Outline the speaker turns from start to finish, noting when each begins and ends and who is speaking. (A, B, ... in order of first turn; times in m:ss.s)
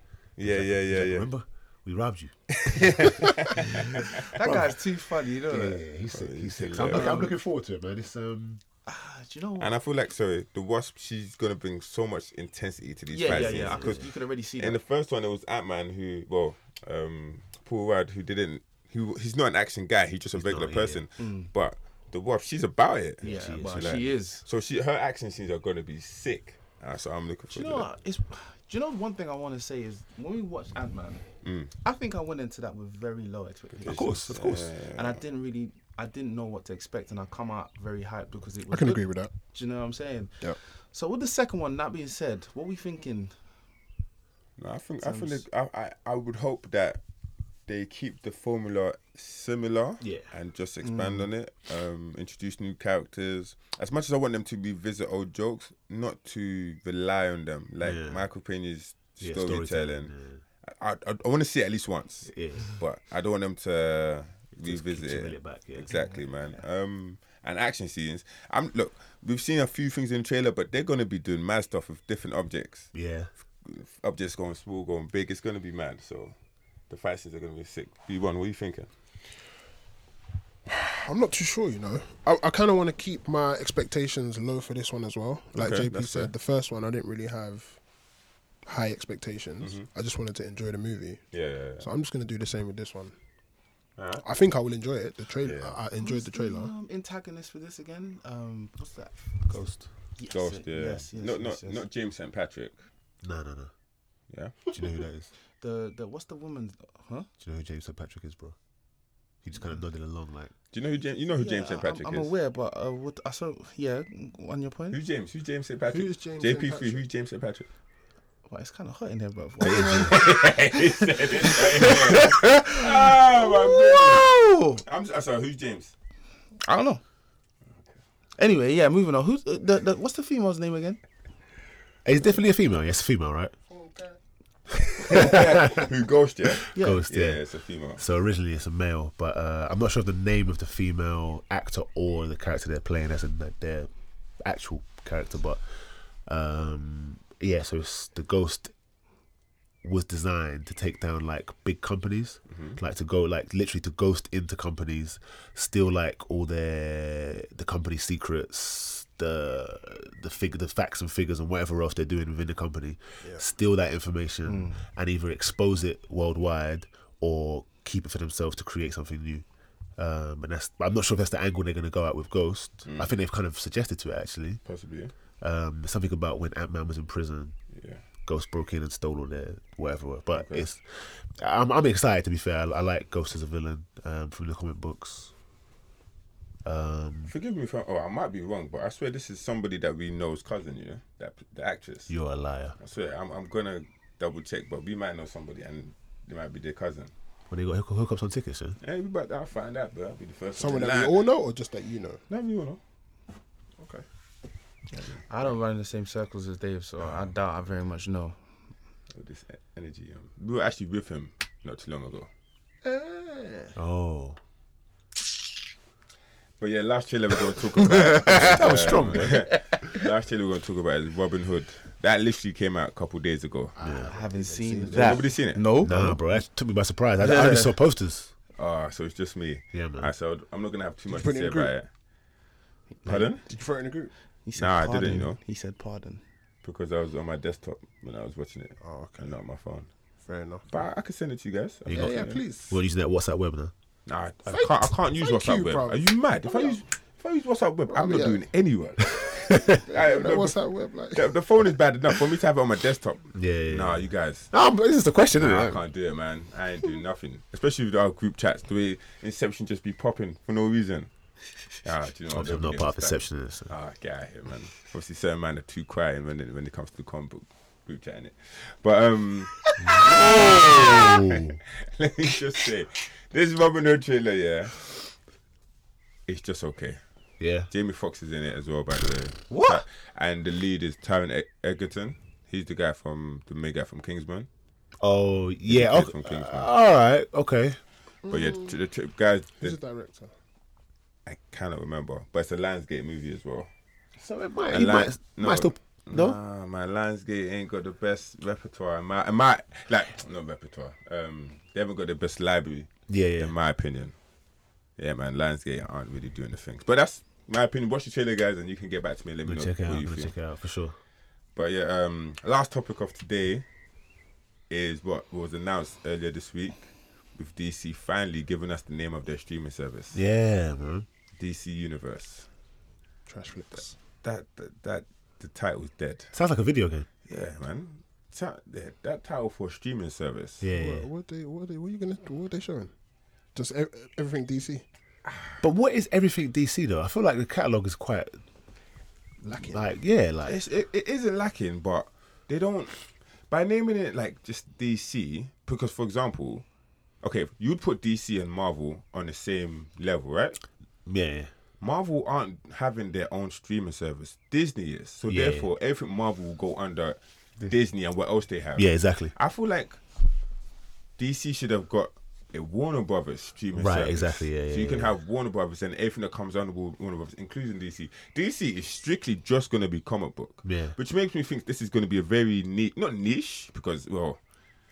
0:00.4-0:01.3 A
0:00.4-0:04.8 B
0:02.6-0:04.2 A
0:04.3-0:05.8 C
0:05.4-0:08.6 B
0:06.1-0:07.2 A
0:06.9-0:07.3 C
0:08.9-0:09.7 C
0:09.6-0:27.9 A
0:13.1-0:14.8 C
0:13.3-0:14.1 B
0:20.3-0:21.0 B
0:21.2-0:21.5 C
0:23.2-0:24.0 B
0:23.2-0:24.4 C
0:27.5-0:31.3 C
0:31.4-0:31.7 A
0:31.8-0:43.4 C
0:33.8-0:35.2 A
0:33.9-0:34.7 B
0:38.7-0:39.3 D
0:44.6-0:47.0 A
0:45.0-0:45.4 C
0:47.7-1:00.1 A
0:50.0-0:50.3 B
0:50.8-0:51.3 C
0:57.8-0:58.3 B
0:59.2-1:00.4 B
1:00.6-1:12.9 A
1:02.3-1:02.8 B
1:04.5-1:06.0 B
1:05.9-1:06.3 C
1:12.9-1:13.3 B
1:13.6-1:16.4 A
1:16.9-1:18.9 A
1:20.7-1:27.8 D
1:25.6-1:26.3 A
1:28.7-1:31.3 D
1:29.6-1:29.9 A
1:31.3-1:31.9 A
1:31.8-1:33.2 D
1:34.0-1:34.2 A
1:34.2-1:36.7 D
1:35.4-1:35.8 A
1:36.0-1:39.5 C
1:39.5-1:39.9 B
1:40.2-1:41.8 C
1:40.3-1:42.8 A
1:43.2-1:43.7 B
1:44.3-1:44.6 A
1:44.7-1:45.3 B
1:45.6-1:47.3 C
1:47.4-1:48.6 B
1:49.4-1:50.5 B
1:50.7-1:52.3 A
1:51.4-1:55.0 C
1:54.9-1:57.7 A
1:55.9-1:57.1 D
1:58.5-2:04.8 C
1:59.6-2:05.9 A
1:59.6-2:00.2 B
2:06.6-2:07.0 C
2:08.4-2:11.0 C
2:12.0-2:13.5 B
2:13.7-2:14.2 D
2:15.0-2:18.0 A
2:15.0-2:15.9 B
2:16.7-2:17.4 B
2:16.7-2:17.0 C
2:18.0-2:23.9 B
2:24.4-2:25.6 B
2:26.3-2:28.7 B
2:29.8-2:49.4 B
2:32.5-2:32.8 A
2:44.5-2:44.8 C
2:50.0-2:54.6 B
2:52.9-2:53.1 A
2:54.6-2:55.1 A
2:55.4-2:57.6 B
2:57.7-2:58.0 A
2:58.2-3:05.3 B
3:00.3-3:00.7 A
3:06.6-3:07.3 B
3:07.3-3:12.1 A
3:12.1-3:12.8 B
3:12.8-3:17.1 A
3:17.5-3:18.8 B
3:18.8-3:21.3 A
3:20.6-3:22.2 D
3:22.3-3:22.8 A
3:23.8-3:24.1 D
3:24.9-3:28.4 C
3:29.1-3:32.3 A
3:32.8-3:33.8 D
3:33.8-3:34.4 B
3:36.6-3:43.7 A
3:38.2-3:39.5 B
3:43.8-3:45.2 D
3:43.8-3:44.1 B
3:44.1-3:46.4 C
3:44.9-3:45.6 A
3:45.8-3:48.3 B
3:47.2-3:47.8 C
3:48.6-3:51.9 A
3:49.7-3:50.1 B
3:51.1-3:51.7 D
3:53.0-3:53.3 C
3:53.0-3:53.4 A
3:53.5-3:54.1 D
3:54.4-3:56.2 C
3:54.6-3:55.4 A
3:56.6-3:59.9 A
3:58.8-3:59.4 D
4:00.2-4:00.7 D
4:00.7-4:02.4 A
4:01.9-4:03.7 B
4:01.9-4:02.8 D
4:04.1-4:14.5 A
4:04.5-4:06.8 D
4:07.9-4:08.4 D
4:09.2-4:09.8 B
4:09.9-4:11.3 D
4:13.4-4:15.8 B
4:15.4-4:21.1 A
4:21.8-4:34.9 A
4:22.3-4:23.7 B
4:29.8-4:31.6 B
4:36.3-4:37.0 A
4:37.4-4:37.7 B
4:37.7-4:44.5 A
4:45.0-4:47.8 B
4:45.7-4:46.7 A
4:48.3-4:48.8 D
4:48.3-4:49.8 A
4:49.6-4:50.3 D
4:51.3-4:53.7 A
4:54.2-4:56.4 B
4:54.7-5:04.1 A
5:03.1-5:03.6 B
5:05.0-5:10.4 A
5:09.4-5:11.0 B
5:11.6-5:13.6 A
5:14.7-5:16.8 A
5:17.4-5:20.2 A
5:20.1-5:21.1 B
5:21.4-5:22.5 A
5:23.3-5:24.0 D
5:24.2-5:26.3 A
5:26.3-5:27.1 B
5:27.3-5:30.6 A
5:30.6-5:31.1 B
5:30.7-5:32.9 D
5:33.6-5:34.8 D
5:35.6-5:38.4 B
5:39.4-5:39.8 D
5:39.6-5:40.6 B
5:40.4-5:46.6 A
5:47.2-5:50.6 A
5:51.1-5:51.5 B
5:51.8-6:00.0 A
5:55.3-5:55.7 B
5:58.8-5:59.3 B
6:01.2-6:14.4 A
6:03.7-6:05.2 B
6:10.6-6:11.0 B